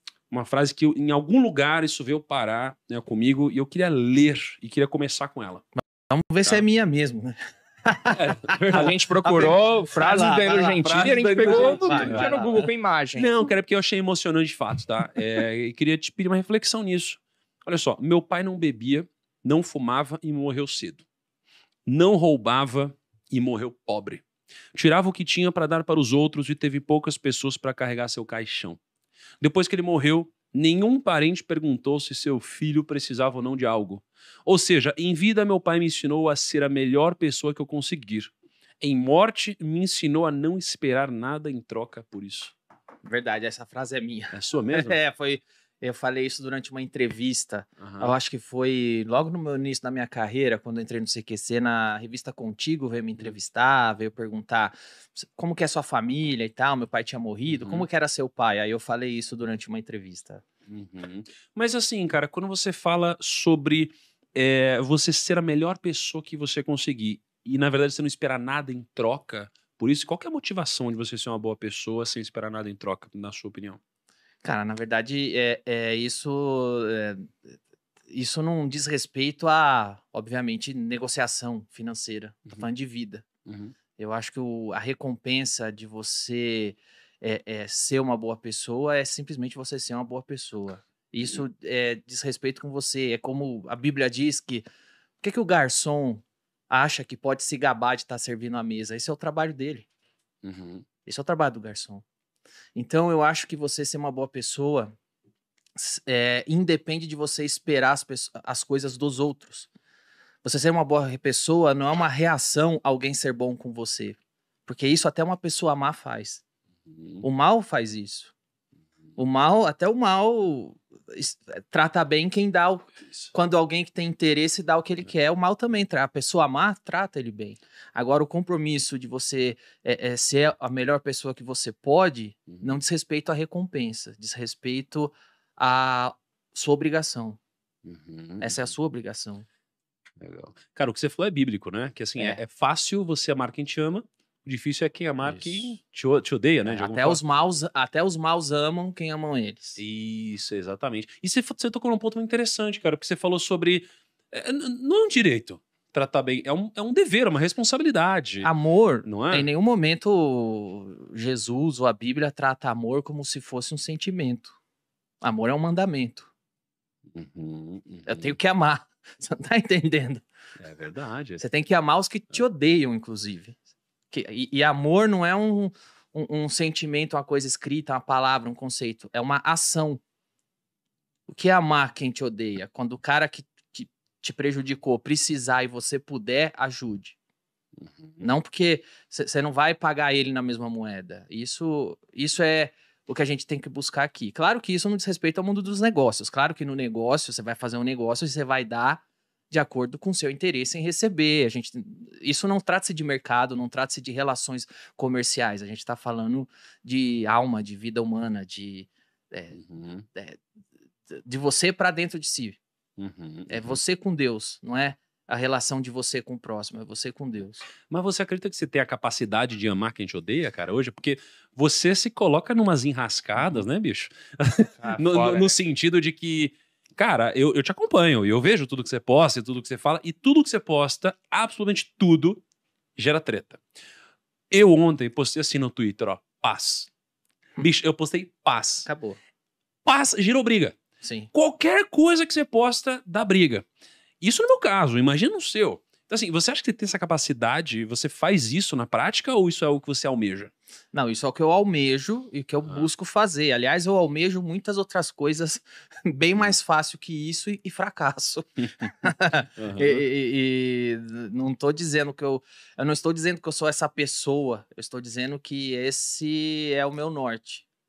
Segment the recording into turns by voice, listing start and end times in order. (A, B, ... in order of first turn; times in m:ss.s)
0:00.3-0:05.6 A
0:05.8-0:12.6 B
0:08.1-0:09.0 A
0:08.7-0:13.3 C
0:10.9-0:12.4 A
0:13.2-0:21.0 A
0:21.9-0:28.8 A
0:29.4-0:42.6 A
0:43.0-1:00.4 B
0:44.3-0:45.0 A
0:47.8-0:48.1 A
0:57.5-0:57.9 A
1:00.7-1:13.8 A
1:14.4-1:17.6 B
1:18.1-1:23.3 B
1:23.5-1:23.7 A
1:24.0-1:34.6 B
1:35.2-1:39.9 B
1:40.4-1:40.8 A
1:41.1-1:42.0 B
1:42.8-1:45.0 B
1:45.8-1:49.7 B
1:50.4-1:56.4 B
1:56.9-1:57.2 A
1:57.2-1:58.3 B
1:59.2-2:17.4 B
2:03.1-2:03.3 A
2:12.5-2:12.8 A
2:17.8-2:18.7 A
2:18.4-2:19.5 B
2:20.2-2:27.2 A
2:25.2-2:25.8 B
2:26.6-2:29.8 B
2:29.8-2:38.5 A
2:38.4-2:44.6 B
2:39.0-2:39.5 A
2:45.2-2:46.3 B
2:47.1-2:48.4 A
2:48.1-2:50.3 B
2:50.6-2:51.4 A
2:51.4-2:53.6 B
2:54.1-3:00.0 B
3:01.3-3:07.2 B
3:07.8-3:08.2 A
3:08.2-3:29.6 B
3:29.5-3:30.1 A
3:30.1-3:30.4 B
3:31.1-3:32.6 B
3:33.0-3:33.8 A
3:33.5-3:37.7 B
3:37.9-3:52.4 A
3:43.4-3:43.6 B
3:44.8-3:45.6 B
3:53.0-3:53.6 A
3:54.5-3:56.9 A
3:57.6-3:58.9 A
3:58.8-3:59.2 B
3:59.8-4:00.8 A
4:01.0-4:01.3 B
4:01.3-4:03.7 A
4:04.2-4:10.5 A
4:10.9-4:27.6 B
4:19.6-4:20.0 A